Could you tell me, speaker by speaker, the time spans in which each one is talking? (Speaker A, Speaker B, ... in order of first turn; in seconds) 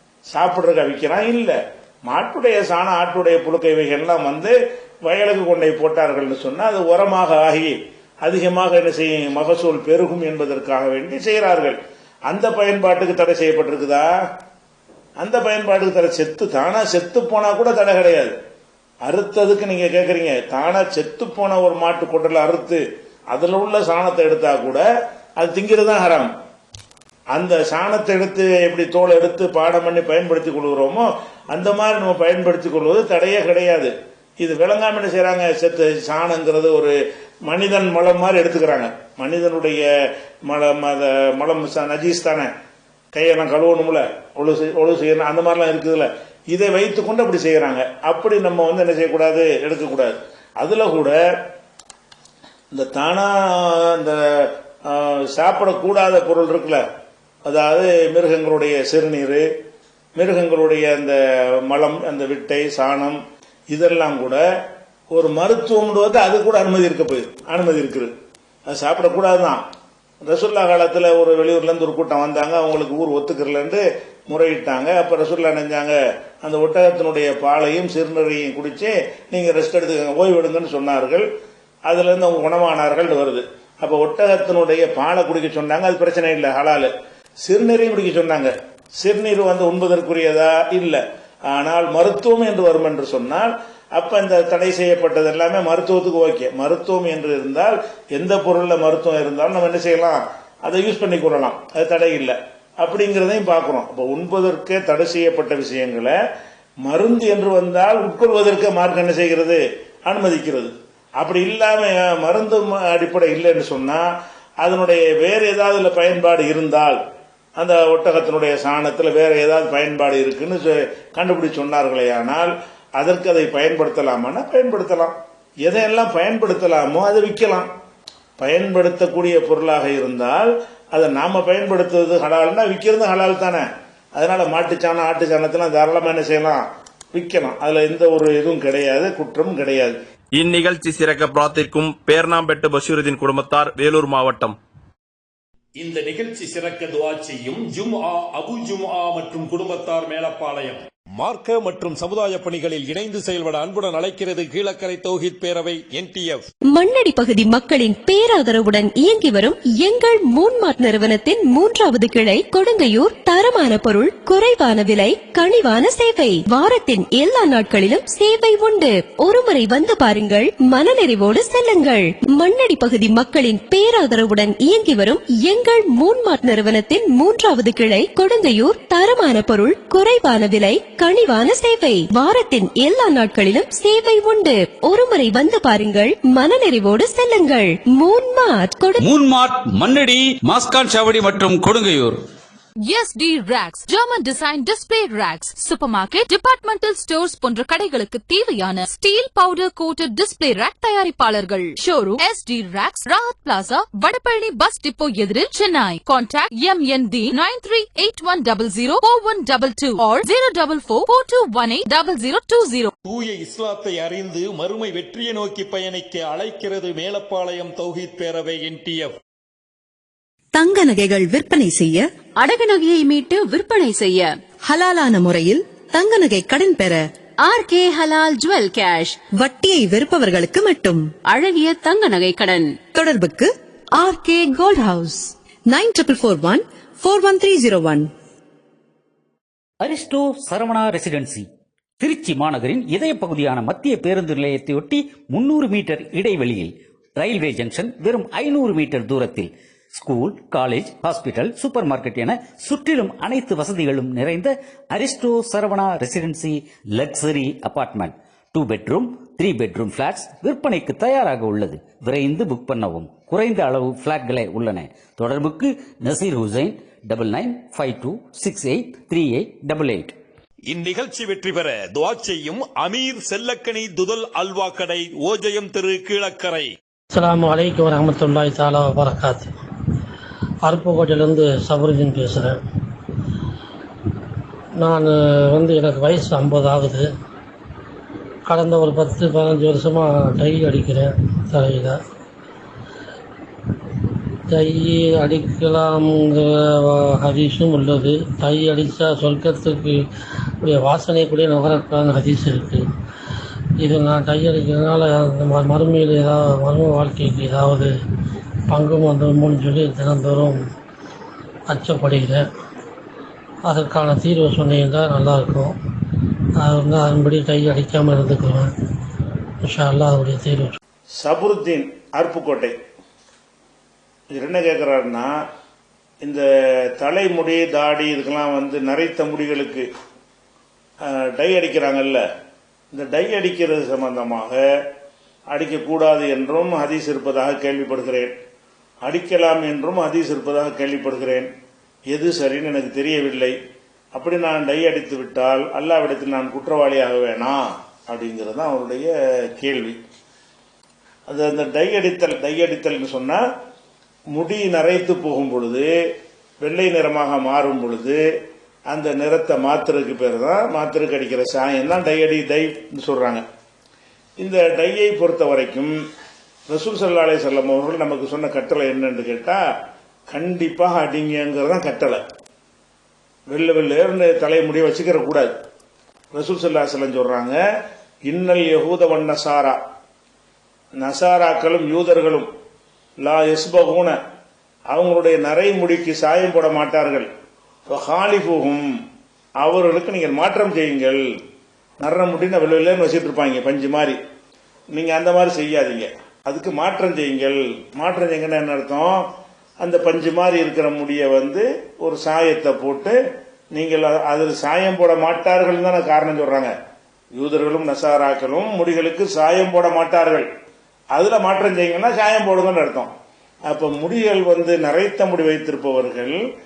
Speaker A: 0.3-14.1, 15.2-18.4, 19.0-24.8, 25.4-26.3, 27.3-36.9, 37.5-39.8, 40.5-42.5, 43.1-51.2, 52.7-56.8, 57.5-59.5, 60.1-63.2, 63.7-64.4, 65.1-68.1, 68.7-69.6, 70.2-81.2, 81.9-86.9, 87.4-106.2, 106.8-114.0, 114.6-117.0, 117.6-127.7, 128.4-140.0, 321.2-322.8, 324.3-325.3, 326.2-329.9, 331.0-332.2, 332.9-334.6, 335.5-338.3, 339.0-341.5, 342.1-343.5, 344.1-350.0, 351.3-353.4, 354.3-355.9, 356.6-358.2, 358.9-363.4, 364.4-365.9, 366.7-369.6, 370.3-372.2, 373.5-375.5, 376.3-377.6, 378.2-379.8, 381.0-382.5, 383.2-384.2, 384.9-387.3, 387.9-388.9, 389.6-391.2, 392.0-394.2, 394.9-399.2, 399.8-403.2, 403.7-406.7, 407.4-410.5, 411.1-413.1, 413.7-416.4
Speaker B: 140.3-144.6
Speaker C: 145.8-156.4, 213.1-219.2, 270.7-276.7
Speaker D: 156.7-189.0
Speaker E: 189.0-192.2
Speaker F: 192.8-212.9
Speaker G: 220.5-222.1, 224.6-227.1, 229.3-231.1, 232.9-238.1
Speaker H: 222.4-224.3, 227.4-229.2, 231.3-232.7
Speaker I: 239.8-241.5, 242.0-270.1
Speaker J: 277.1-279.5, 280.6-282.6, 284.8-287.1, 288.5-292.0, 294.5-300.0, 300.6-302.9, 303.8-307.9, 308.7-310.7, 311.7-312.4, 313.6-315.7, 316.6-318.7, 319.6-320.8